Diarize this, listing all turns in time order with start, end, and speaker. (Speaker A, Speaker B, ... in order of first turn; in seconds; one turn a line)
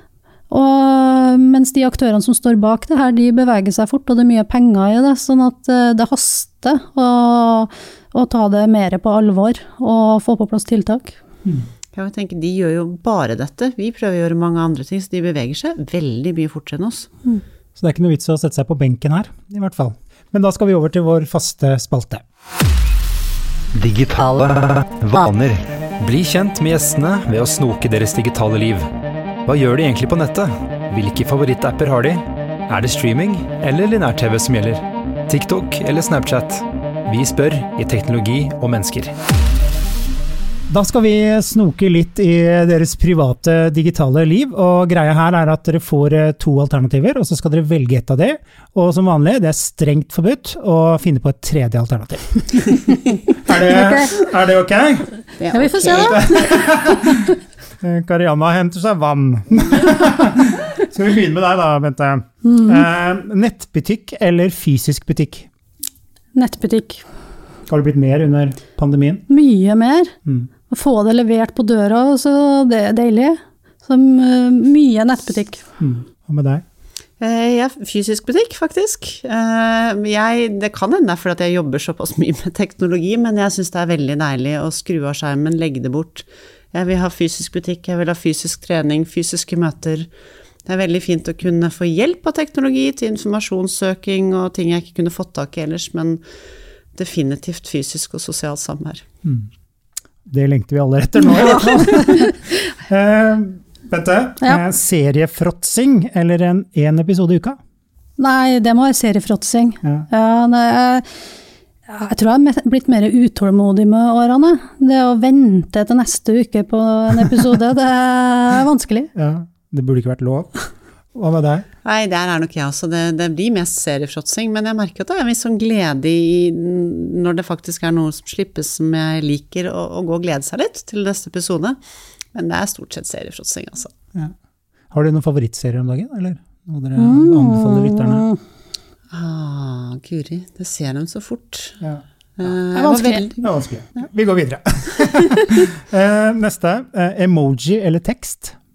Speaker A: 0.5-11.2
Speaker B: 11.9-17.1
Speaker C: 17.8-22.2
Speaker D: 23.7-28.9
Speaker D: 29.5-39.1
Speaker C: 40.7-52.6
Speaker C: 53.4-55.1
Speaker A: 53.6-54.1
Speaker B: 55.4-56.2
Speaker A: 55.5-57.3
Speaker C: 55.9-57.2
Speaker C: 57.8-65.5
Speaker A: 62.4-62.9
Speaker A: 66.3-67.0
Speaker C: 67.7-69.2
Speaker A: 69.3-70.1
Speaker A: 70.7-75.6
Speaker C: 75.8-76.6
Speaker B: 77.2-90.1
Speaker B: 90.7-96.2
Speaker B: 97.0-99.0
Speaker C: 99.2-99.5
Speaker C: 100.3-107.6
Speaker A: 101.4-102.3
Speaker A: 108.2-111.1
Speaker A: 111.9-119.1
Speaker C: 119.2-120.5
Speaker C: 121.1-121.7
Speaker B: 121.8-131.8
Speaker B: 132.3-133.9
Speaker C: 134.9-138.3
Speaker A: 137.0-138.4
Speaker B: 139.1-141.8
Speaker B: 142.4-143.4
Speaker A: 142.7-143.3
Speaker C: 143.4-148.6
Speaker A: 145.2-145.6